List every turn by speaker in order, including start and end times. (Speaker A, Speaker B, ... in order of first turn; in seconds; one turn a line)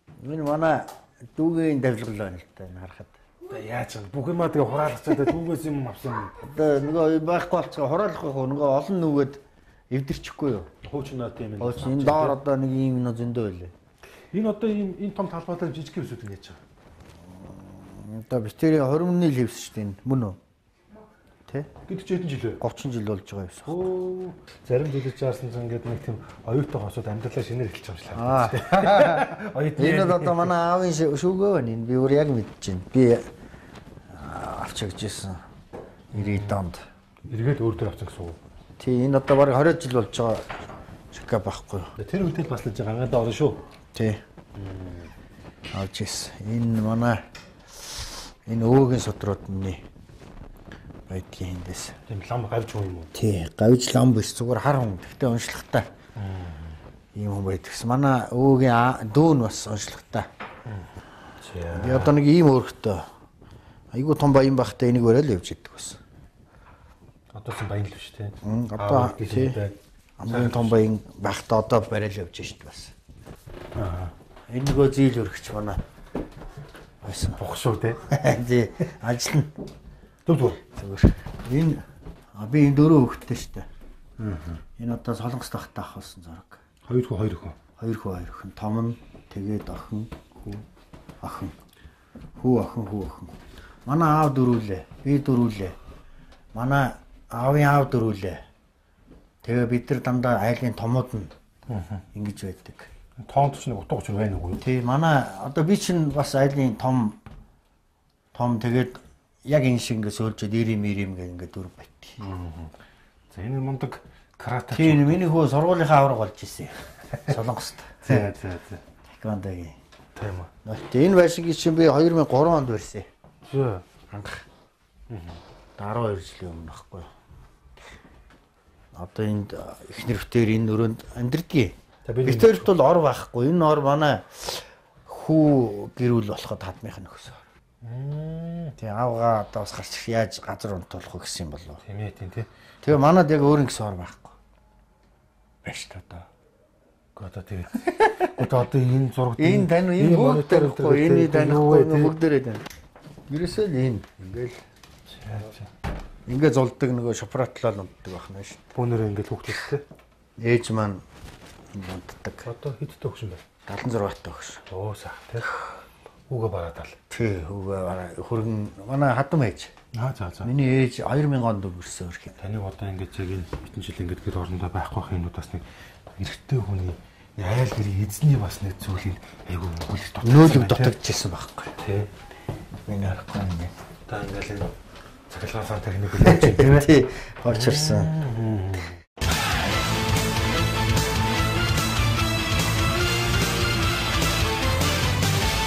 Speaker A: 0.2-3.2
Speaker B: 3.5-6.4
Speaker A: 6.4-10.7
Speaker B: 10.8-12.4
Speaker A: 11.6-13.7
Speaker B: 14.3-16.6
Speaker A: 17.2-20.4
Speaker A: 21.5-21.7
Speaker B: 21.9-22.6
Speaker A: 22.6-23.9
Speaker B: 23.7-30.5
Speaker A: 28.1-33.3
Speaker A: 34.1-35.4
Speaker A: 36.1-36.8
Speaker B: 36.1-36.6
Speaker B: 37.3-38.4
Speaker A: 38.8-40.6
Speaker A: 41.1-41.9
Speaker B: 42.0-43.6
Speaker A: 43.9-44.2
Speaker B: 44.5-45.1
Speaker A: 45.7-49.8
Speaker A: 51.1-52.0
Speaker B: 52.1-53.1
Speaker A: 53.1-55.9
Speaker B: 56.2-56.8
Speaker A: 57.1-60.3
Speaker B: 60.7-62.2
Speaker A: 61.7-63.1
Speaker A: 63.9-66.0
Speaker B: 67.3-69.8
Speaker A: 68.4-69.6
Speaker A: 70.2-72.9
Speaker B: 70.3-70.8
Speaker B: 73.8-74.1
Speaker A: 74.5-75.8
Speaker A: 77.0-77.4
Speaker B: 77.4-78.0
Speaker A: 78.0-79.6
Speaker B: 80.3-80.7
Speaker A: 80.7-83.7
Speaker B: 84.2-84.6
Speaker A: 84.8-86.6
Speaker B: 86.8-87.6
Speaker A: 87.8-90.6
Speaker A: 91.2-91.6
Speaker A: 92.4-95.8
Speaker A: 96.5-98.4
Speaker A: 99.4-101.3
Speaker B: 101.7-102.0
Speaker A: 102.1-102.9
Speaker B: 103.2-104.7
Speaker A: 104.6-107.2
Speaker A: 108.3-112.2
Speaker B: 112.2-112.8
Speaker B: 113.3-115.2
Speaker A: 114.7-118.3
Speaker B: 118.0-118.8
Speaker A: 119.1-119.8
Speaker B: 120.2-120.5
Speaker A: 120.7-123.1
Speaker B: 123.5-123.9
Speaker A: 124.1-124.5
Speaker B: 125.1-125.4
Speaker A: 125.8-127.1
Speaker A: 128.9-137.4
Speaker B: 132.1-132.7
Speaker B: 137.8-138.8
Speaker A: 138.8-141.8
Speaker B: 141.8-142.5
Speaker A: 142.8-144.4
Speaker A: 145.6-146.3
Speaker B: 147.2-152.2
Speaker A: 147.9-148.3
Speaker A: 149.4-152.7
Speaker A: 153.3-154.6
Speaker B: 155.1-155.7
Speaker A: 156.3-158.7
Speaker B: 158.8-159.8
Speaker A: 160.4-161.0
Speaker A: 161.7-162.5
Speaker B: 162.4-163.4
Speaker A: 163.7-164.6
Speaker B: 164.7-167.0
Speaker A: 167.1-169.7
Speaker B: 169.9-170.5
Speaker A: 170.4-172.4
Speaker B: 172.4-175.6
Speaker B: 176.2-181.0
Speaker A: 180.2-181.8
Speaker B: 181.8-182.1
Speaker A: 182.9-183.7
Speaker B: 184.1-184.8
Speaker B: 185.3-186.9
Speaker A: 186.2-188.1
Speaker B: 187.5-189.0